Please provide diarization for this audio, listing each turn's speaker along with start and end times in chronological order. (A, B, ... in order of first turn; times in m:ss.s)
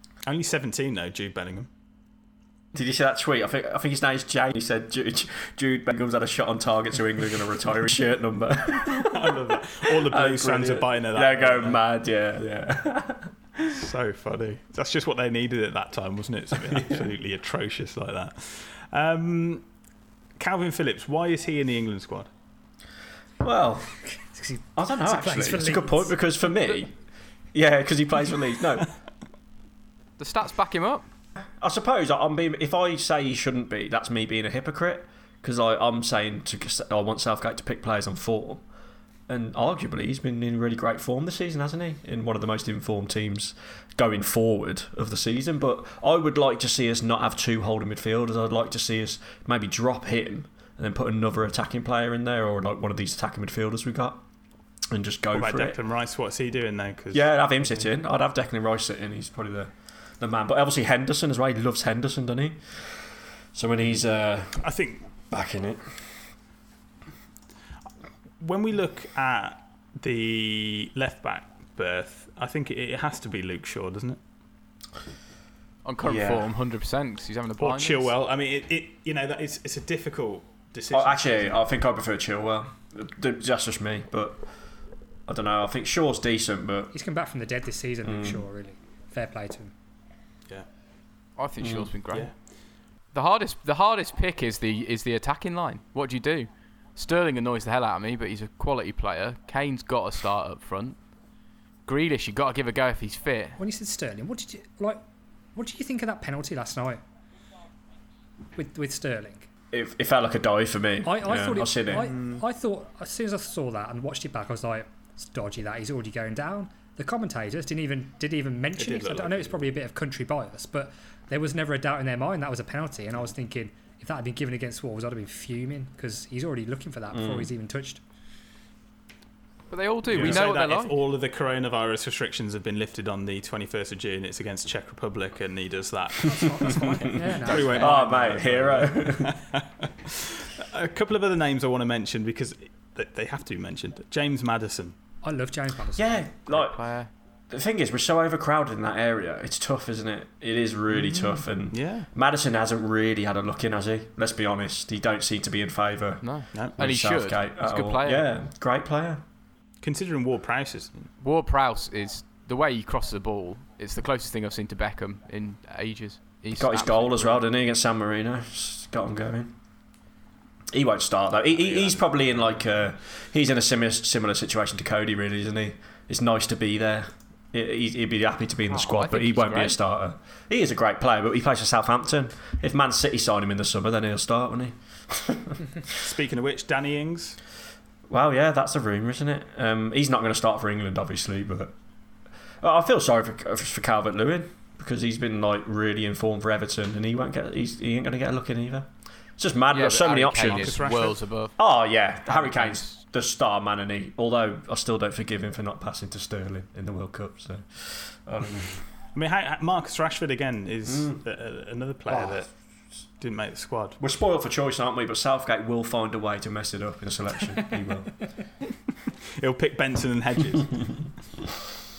0:00.2-0:01.7 A
0:02.7-0:13.4 B
0:08.9-0:11.8 A
0:13.6-0:19.7 A
0:16.6-0:17.1 B
0:20.4-0:22.3 A
0:23.4-0:24.0 B
0:24.1-0:26.2 C
0:24.8-0:27.0 B
0:27.5-0:29.0 B
0:30.2-0:31.0 D
0:31.6-0:38.6 B
0:39.3-0:54.2 B
0:54.9-0:55.8 B
0:55.3-0:57.3 A
0:57.1-1:04.7 B
1:04.6-1:05.0 A
1:05.3-1:06.2 B
1:08.4-1:14.2 A
1:15.8-1:18.1 D
1:16.0-1:16.5 B
1:17.6-1:21.6 A
1:20.9-1:24.5 B
1:25.3-1:26.9 B
1:26.9-1:29.7 C
1:28.0-1:28.5 B
1:31.4-1:32.6 D
1:31.6-1:31.9 B
1:33.1-1:41.0 D
1:41.9-1:43.6 D
1:43.6-1:45.0 C
1:45.5-1:47.0 C
1:48.5-1:49.5 C
1:49.7-1:52.1 B
1:51.0-2:08.0 C
1:52.0-1:52.4 A
1:58.8-1:59.6 A
2:07.1-2:07.5 B
2:09.7-2:11.0 D
2:10.1-2:25.0 A
2:16.2-2:17.9 C
2:17.2-2:18.4 D
2:17.8-2:19.4 B
2:25.2-2:26.3 C
2:26.0-2:39.2 B
2:26.5-2:27.1 D
2:31.0-2:32.1 A
2:36.2-2:38.3 D
2:39.8-2:41.1 A
2:41.2-2:47.4 D
2:46.5-2:49.5 B
2:50.7-3:05.7 B
2:51.6-2:52.6 A
2:58.7-2:59.8 D
3:06.0-3:07.4 A
3:08.1-3:11.8 B
3:12.6-3:20.8 B
3:19.7-3:23.0 D
3:20.4-3:21.2 A
3:21.6-3:28.9 B
3:29.1-3:32.6 A
3:30.9-3:31.2 B
3:32.1-3:32.4 B
3:33.2-3:34.0 A
3:34.0-3:38.3 B
3:39.4-3:41.1 A